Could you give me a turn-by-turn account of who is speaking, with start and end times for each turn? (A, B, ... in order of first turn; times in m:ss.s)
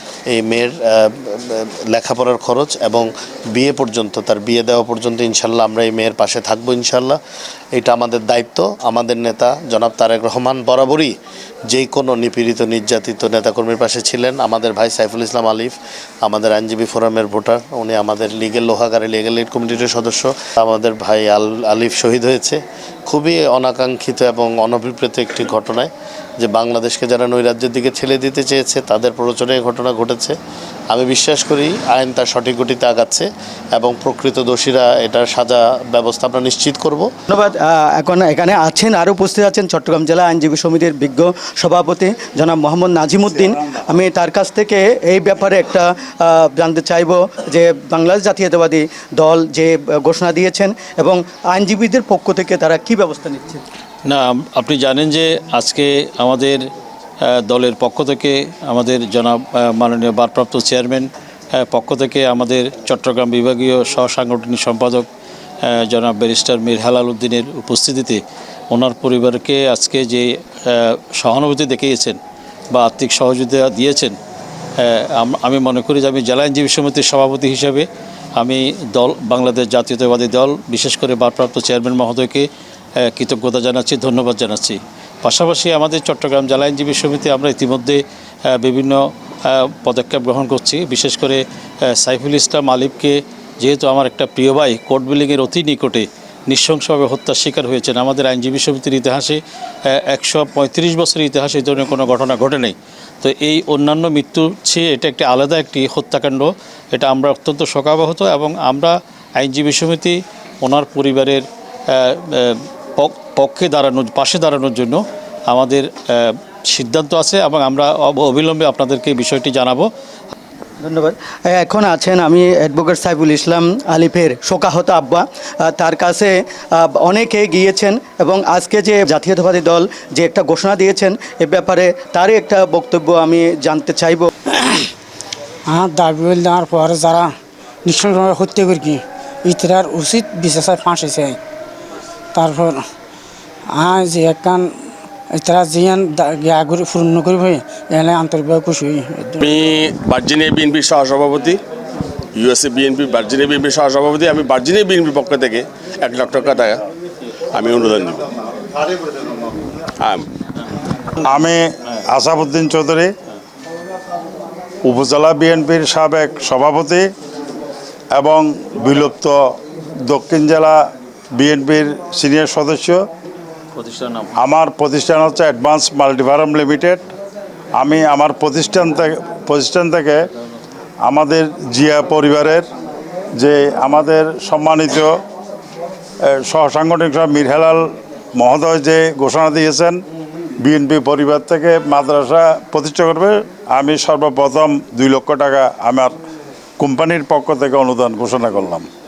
0:00.3-0:07.2 A
0:07.7-0:11.1 A
0:11.7-0:25.9 A
0:26.4-0:30.4 A
0:30.9-0:37.1 A
0:37.3-0:53.6 B
0:54.1-0:56.6 C
0:57.2-1:01.1 C
1:01.6-1:05.1 C
1:05.6-1:12.2 C
1:12.7-1:14.2 C
1:14.8-1:17.9 C
1:18.4-1:22.5 C
1:23.0-1:59.9 C
2:00.8-2:14.3 B
2:14.5-2:14.9 D
2:15.7-2:17.3 D
2:17.8-2:21.4 D
2:22.4-2:22.8 D
2:23.7-2:24.7 D
2:25.3-2:29.6 D
2:29.4-2:31.6 E
2:32.3-2:36.8 E
2:37.5-2:38.3 E
2:40.0-2:40.3 E
2:41.3-2:43.1 F
2:44.8-2:47.1 F
2:48.1-2:50.8 F
2:51.4-2:53.1 F
2:53.8-2:54.3 C
2:54.4-2:57.1 F
2:57.8-3:00.2 F
3:01.0-3:02.7 F
3:03.4-3:05.2 F
3:06.3-3:10.0 F
3:10.6-3:16.2 F
3:16.8-3:18.9 F